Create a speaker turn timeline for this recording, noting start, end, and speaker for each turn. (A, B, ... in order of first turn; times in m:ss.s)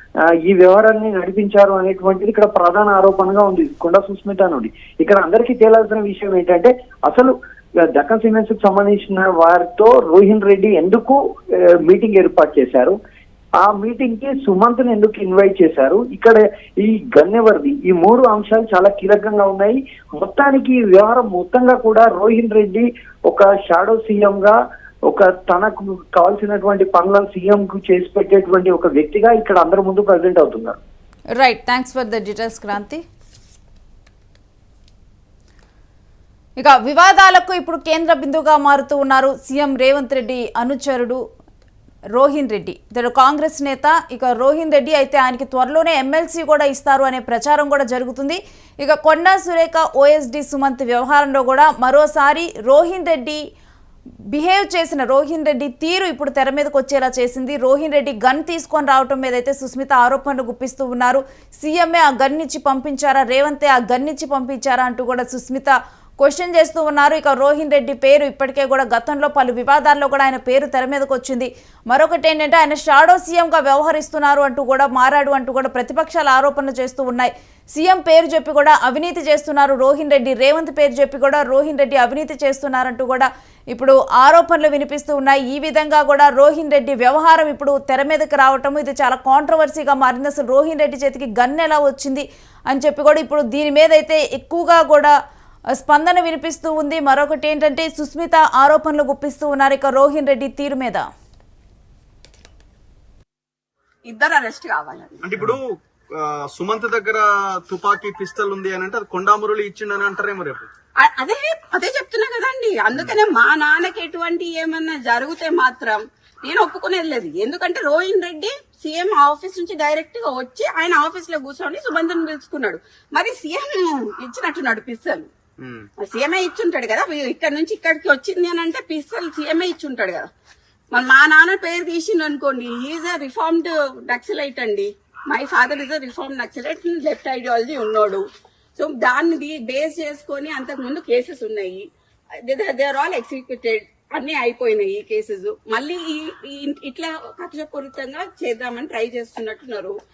0:00.3-0:07.3 A
0:07.9-0:13.0 A
0:13.6-0:30.8 A
0:31.4-0:33.0 B
0:36.6-0:41.2 B
0:42.2-0:53.4 B
0:54.3-1:35.1 B
1:35.7-1:41.1 B
1:44.1-1:45.2 C
1:45.2-1:50.7 D
1:51.0-2:05.3 C
2:05.6-2:05.9 D
2:06.0-2:10.2 C
2:10.9-2:18.2 C
2:18.8-2:21.9 C
2:22.4-2:30.0 C